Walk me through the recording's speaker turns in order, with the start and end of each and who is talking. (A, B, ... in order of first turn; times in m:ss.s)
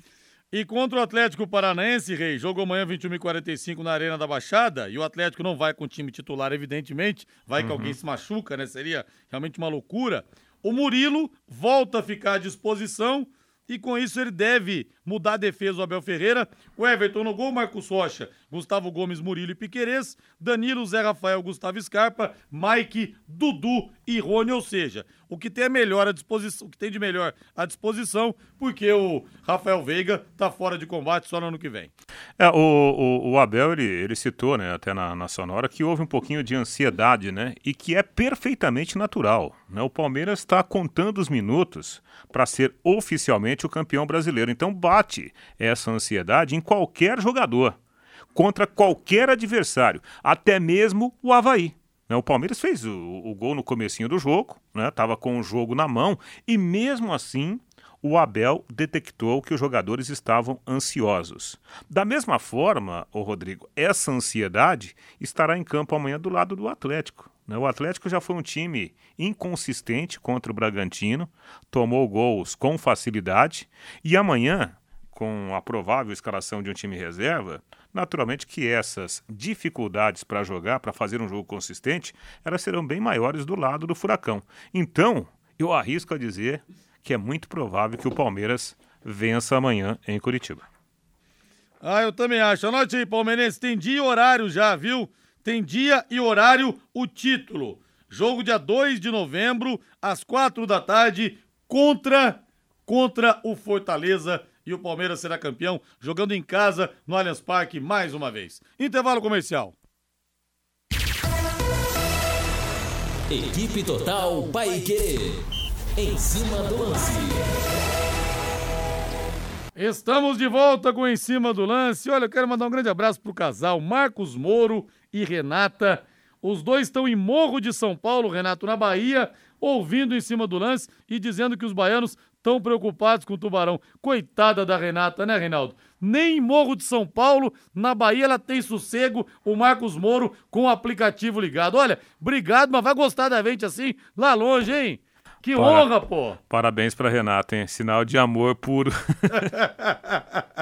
0:00.5-0:31.9 A
0:07.6-0:08.0 B
0:32.4-0:47.8 B
0:48.3-1:30.6 B
1:31.8-1:49.7 A
1:53.3-1:55.4 C
1:56.0-1:57.6 C
1:59.8-2:26.4 A
2:25.6-2:25.9 B
2:26.5-2:29.5 B
2:29.3-2:30.4 A